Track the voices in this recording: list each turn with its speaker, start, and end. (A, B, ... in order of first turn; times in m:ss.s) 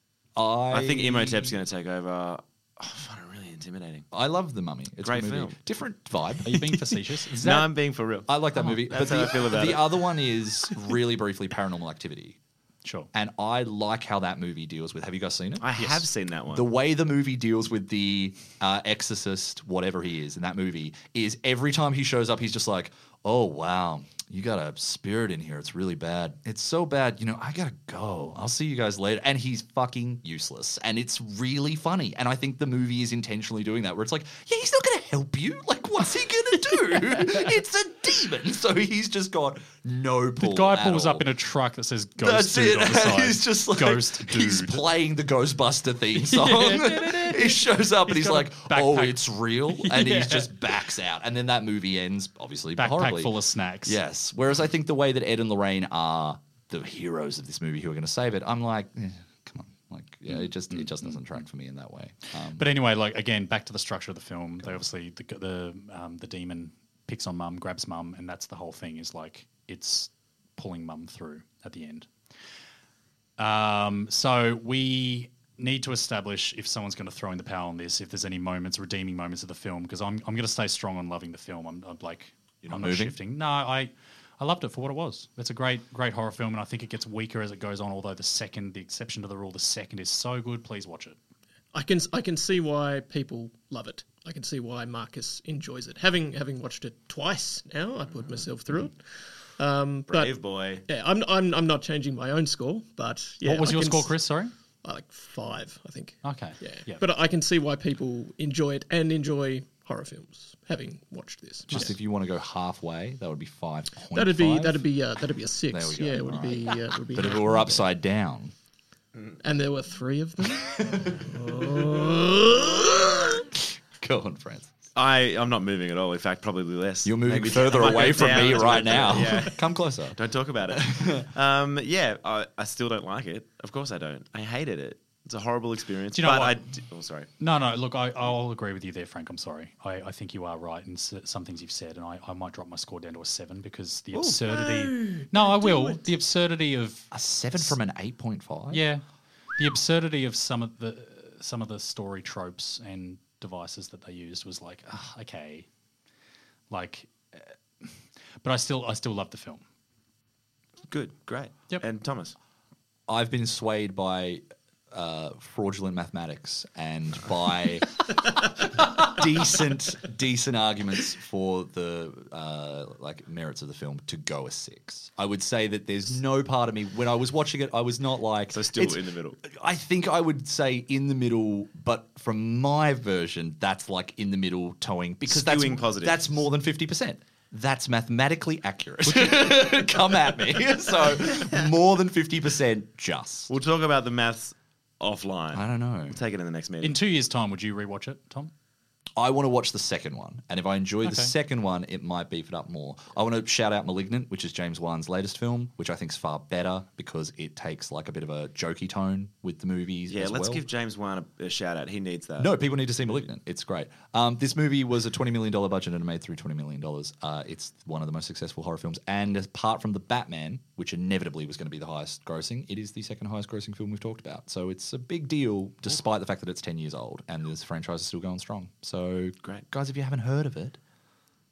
0:00.4-0:01.6 A
0:00.7-0:04.1 B
0:04.1-0:06.6 A
0:05.0-0:05.6 B
0:06.4-0:07.7 C
0:06.5-0:06.8 B
0:07.4-0:08.3 B
0:08.3-0:12.4 A
0:08.8-0:10.0 B
0:12.8-0:13.1 C
0:13.1-0:15.9 A
0:15.6-0:16.7 B
0:16.5-0:41.3 A
0:37.0-0:37.2 C
0:40.4-0:44.8 C
0:42.2-0:53.3 A
0:46.2-0:50.7 C
0:52.8-0:54.0 C
0:53.9-1:02.6 A
1:02.5-1:12.1 C
1:13.4-1:31.2 C
1:22.6-1:23.2 A
1:31.7-1:39.0 D
1:39.6-1:44.2 D
1:40.1-1:40.8 B
1:43.4-1:44.5 C
1:44.8-1:51.9 D
1:46.2-1:47.0 C
1:51.7-1:54.8 A
1:54.1-1:57.9 D
1:55.7-1:58.5 A
1:59.4-2:03.4 D
2:00.6-2:02.1 A
2:02.8-2:04.7 A
2:05.0-2:17.3 B
2:07.0-2:11.3 A
2:08.9-2:09.5 D
2:16.1-2:16.6 C
2:17.4-2:27.7 C
2:24.3-2:26.1 D
2:27.1-2:28.8 A
2:28.7-2:29.0 C
2:29.6-2:35.7 C
2:36.7-2:37.9 C
2:38.4-2:39.6 C
2:40.9-2:42.4 B
2:43.1-3:13.5 A
2:58.5-2:59.4 B
3:05.3-3:06.4 B
3:09.1-3:09.6 C
3:13.5-3:17.0 B
3:15.5-3:16.2 A
3:16.8-3:18.5 C
3:19.2-3:30.6 A
3:21.0-3:21.3 C
3:30.1-3:32.5 B
3:32.4-3:50.8 A